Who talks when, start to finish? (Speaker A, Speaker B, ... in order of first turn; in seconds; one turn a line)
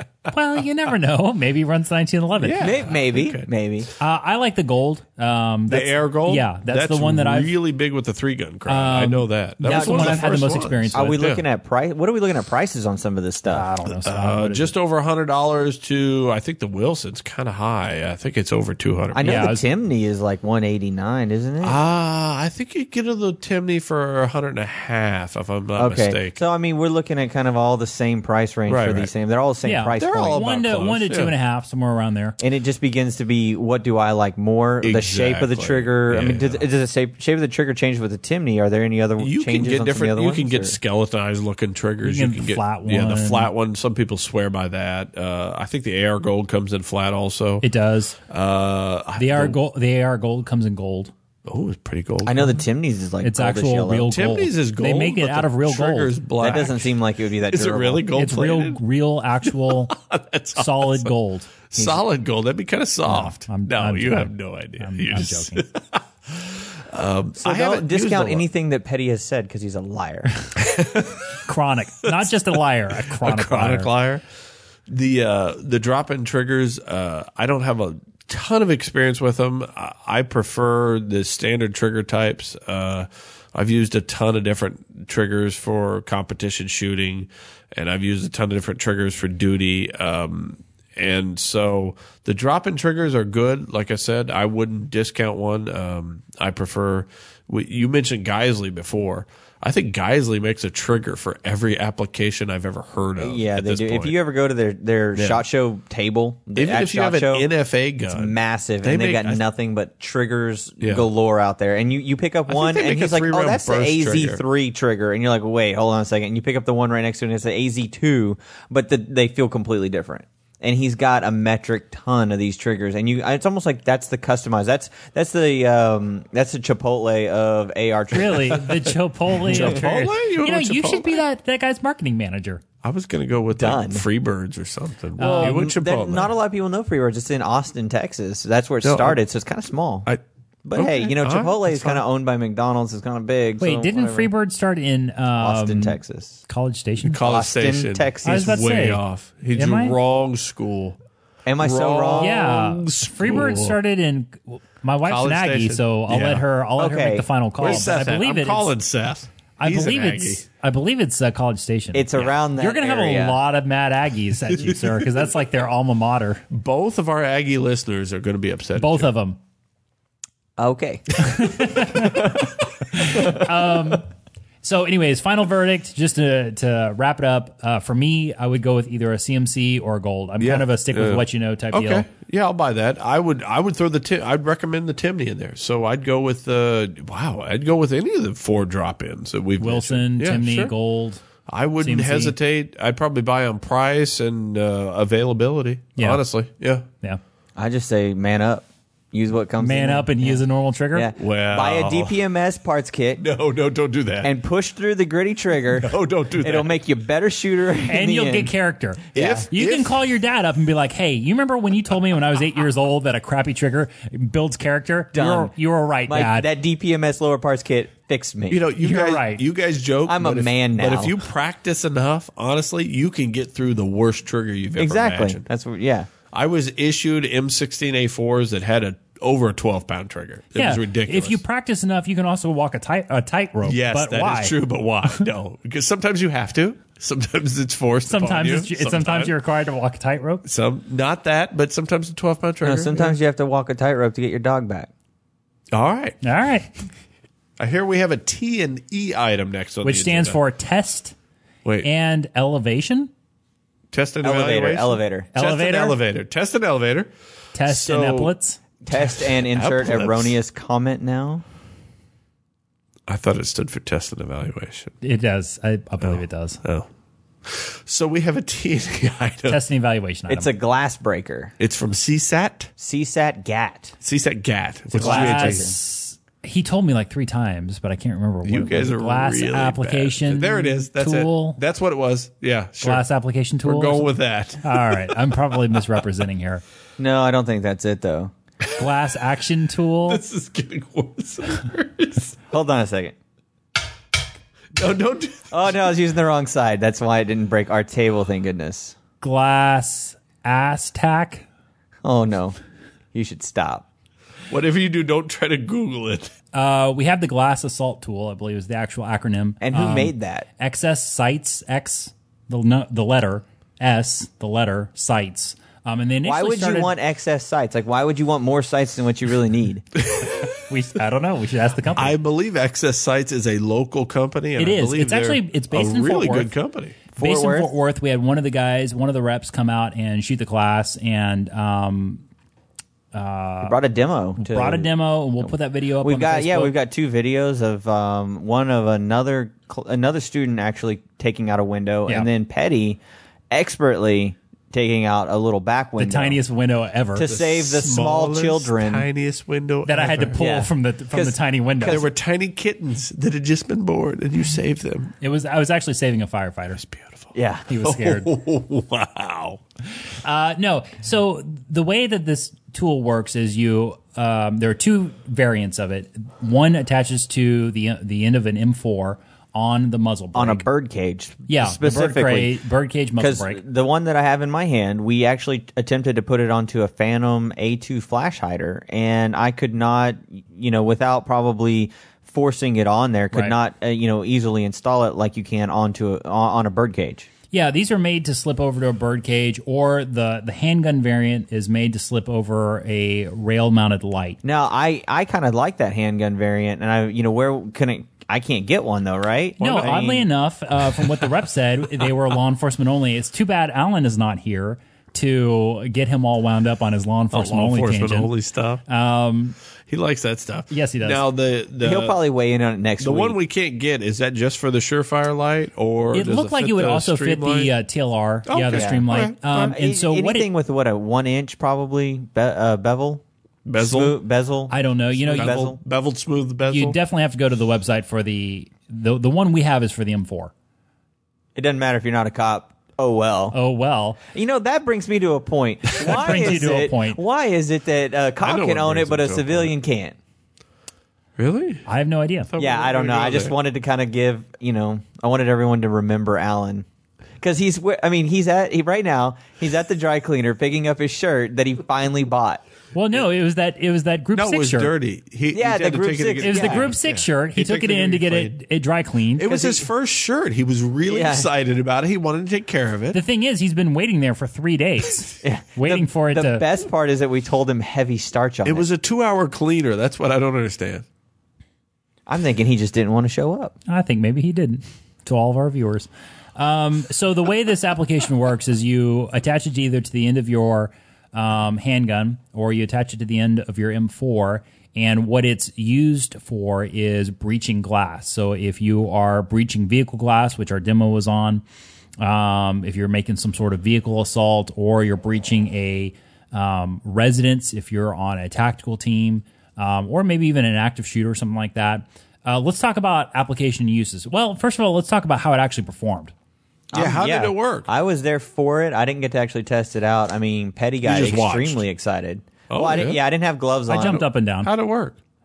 Speaker A: 0.3-2.7
Speaker B: 2.4-3.5
Speaker C: 2.6-3.9
Speaker A: 4.0-7.5
Speaker B: 5.7-11.4
Speaker A: 8.7-11.2
Speaker C: 9.6-10.3
Speaker C: 10.9-13.7
Speaker A: 13.5-14.7
Speaker B: 13.8-19.5
Speaker C: 19.1-21.8
Speaker A: 19.2-19.6
Speaker B: 21.6-26.4
Speaker C: 25.8-30.5
Speaker B: 28.7-29.1
Speaker A: 29.6-32.4
Speaker B: 30.0-31.3
Speaker C: 32.4-40.8
Speaker B: 34.8-36.6
Speaker B: 39.2-47.6
Speaker A: 42.0-43.5
Speaker A: 47.6-48.1
Speaker B: 48.3-49.6
Speaker A: 49.2-51.1
Speaker B: 51.5-52.6
Speaker C: 52.2-54.1
Speaker A: 53.2-56.1
Speaker B: 54.1-56.9
Speaker C: 56.4-58.1
Speaker B: 57.5-58.8
Speaker A: 58.1-59.9
Speaker B: 59.4-61.1
Speaker A: 60.5-61.5
Speaker B: 61.7-68.5
Speaker C: 61.8-62.0
Speaker A: 63.0-65.7
Speaker C: 67.4-70.5
Speaker B: 70.5-71.4
Speaker A: 71.5-73.9
Speaker B: 72.0-72.4
Speaker B: 72.9-74.2
Speaker B: 74.9-104.2
Speaker C: 103.2-107.5
Speaker B: 105.2-105.4
Speaker B: 106.5-109.4
Speaker C: 108.1-128.7
Speaker B: 110.8-111.0
Speaker B: 112.5-114.4
Speaker A: 128.1-132.6
Speaker B: 128.5-128.9
Speaker B: 129.4-131.2
Speaker B: 132.8-136.3
Speaker C: 133.6-134.1
Speaker A: 135.2-135.6
Speaker C: 135.2-140.1
Speaker B: 138.8-139.2
Speaker C: 140.6-144.3
Speaker B: 140.7-142.0
Speaker A: 143.6-147.2
Speaker C: 145.4-146.4
Speaker B: 147.0-151.0
Speaker C: 147.2-148.7
Speaker A: 148.2-149.0
Speaker A: 149.5-150.0
Speaker C: 151.4-152.4
Speaker B: 151.6-153.8
Speaker A: 152.2-158.7
Speaker B: 155.0-156.4
Speaker C: 156.8-157.8
Speaker B: 157.6-160.4
Speaker A: 159.6-166.4
Speaker C: 161.9-163.4
Speaker B: 164.5-165.0
Speaker B: 166.5-169.1
Speaker A: 168.8-169.4
Speaker C: 170.6-172.5
Speaker A: 171.2-174.1
Speaker A: 174.6-182.1
Speaker B: 180.4-190.7
Speaker A: 189.6-191.2
Speaker B: 191.5-196.9
Speaker A: 191.8-192.3
Speaker A: 196.0-196.2
Speaker C: 197.6-200.4
Speaker A: 199.6-201.1
Speaker C: 200.9-203.2
Speaker B: 201.2-202.2
Speaker B: 203.2-204.3
Speaker C: 204.2-208.5
Speaker B: 205.7-206.7
Speaker A: 207.8-216.5
Speaker C: 209.1-209.5
Speaker B: 209.1-210.0
Speaker C: 215.1-215.5
Speaker C: 216.1-218.6
Speaker B: 218.5-225.4
Speaker A: 218.8-219.4
Speaker C: 220.1-221.2
Speaker C: 224.8-226.1
Speaker B: 226.3-231.4
Speaker A: 230.6-234.6
Speaker B: 233.6-239.3
Speaker A: 238.1-240.4
Speaker B: 240.4-243.2
Speaker C: 242.6-244.9
Speaker B: 245.7-246.2
Speaker A: 246.2-246.7
Speaker B: 247.6-250.4
Speaker A: 249.8-251.1
Speaker A: 251.8-253.1
Speaker B: 253.9-257.1
Speaker C: 254.2-255.3
Speaker A: 255.3-256.0
Speaker A: 257.5-258.6
Speaker B: 257.6-258.3
Speaker C: 258.8-261.4
Speaker B: 258.9-260.4
Speaker B: 263.1-264.9
Speaker A: 265.0-266.6
Speaker B: 266.0-266.9
Speaker B: 267.4-269.6
Speaker A: 269.5-270.5
Speaker C: 270.3-271.5
Speaker B: 271.6-272.7
Speaker C: 272.8-274.0
Speaker B: 274.0-275.6
Speaker C: 274.9-275.7
Speaker A: 274.9-281.6
Speaker B: 278.4-283.0
Speaker A: 282.8-284.1
Speaker B: 283.6-285.4
Speaker A: 284.6-286.6
Speaker C: 287.0-288.3
Speaker A: 288.8-290.2
Speaker B: 290.1-292.4
Speaker C: 292.5-293.1
Speaker B: 294.7-295.5
Speaker C: 295.5-298.9
Speaker A: 299.2-301.4
Speaker C: 302.0-302.6
Speaker C: 303.1-303.9
Speaker B: 304.5-306.3
Speaker A: 306.5-316.9
Speaker C: 309.6-310.5
Speaker C: 316.2-319.8
Speaker B: 320.0-320.5
Speaker A: 320.5-322.1
Speaker B: 321.9-327.0
Speaker A: 324.6-326.5
Speaker A: 327.1-332.2
Speaker C: 327.2-327.7
Speaker A: 333.1-333.8
Speaker C: 333.6-334.9
Speaker A: 334.4-336.7
Speaker C: 336.0-343.0
Speaker C: 343.5-346.4
Speaker A: 346.0-347.3
Speaker C: 347.1-349.1
Speaker B: 347.2-350.4
Speaker A: 349.9-352.0
Speaker C: 350.4-352.0
Speaker B: 351.8-355.1
Speaker A: 355.2-356.8
Speaker B: 356.8-359.6
Speaker C: 357.3-357.7
Speaker A: 357.7-358.3
Speaker A: 360.2-370.6
Speaker C: 370.3-372.6
Speaker A: 371.5-373.6
Speaker C: 373.2-387.3
Speaker A: 387.5-394.4
Speaker C: 394.4-400.3
Speaker A: 399.6-408.3
Speaker B: 399.6-400.0
Speaker B: 401.0-401.3
Speaker B: 407.3-408.8
Speaker A: 408.9-409.6
Speaker B: 409.9-412.2
Speaker A: 410.7-411.2
Speaker C: 411.8-413.4
Speaker B: 413.0-417.7
Speaker A: 416.1-420.5
Speaker B: 418.4-419.7
Speaker C: 418.7-423.2
Speaker B: 423.6-424.2
Speaker C: 423.8-425.8
Speaker A: 424.7-425.6
Speaker B: 425.3-427.0
Speaker A: 426.7-430.5
Speaker C: 431.6-433.6
Speaker A: 433.5-434.2
Speaker C: 434.3-440.1
Speaker A: 436.0-437.2
Speaker B: 438.4-439.7
Speaker B: 441.4-441.8
Speaker A: 441.9-442.5
Speaker B: 442.5-443.5
Speaker C: 442.6-446.9
Speaker C: 447.4-452.6
Speaker A: 452.9-454.9
Speaker B: 454.3-458.6
Speaker C: 455.5-456.9
Speaker A: 456.4-459.4
Speaker B: 459.4-463.2
Speaker C: 459.4-459.9
Speaker C: 461.1-461.5
Speaker A: 463.1-466.6
Speaker C: 465.4-468.9
Speaker B: 468.6-471.1
Speaker C: 472.3-473.7
Speaker A: 473.9-491.6
Speaker A: 492.2-506.3
Speaker C: 506.9-514.2
Speaker B: 506.9-507.9
Speaker B: 511.0-511.8
Speaker B: 512.7-513.2
Speaker A: 513.9-514.7
Speaker B: 514.0-515.2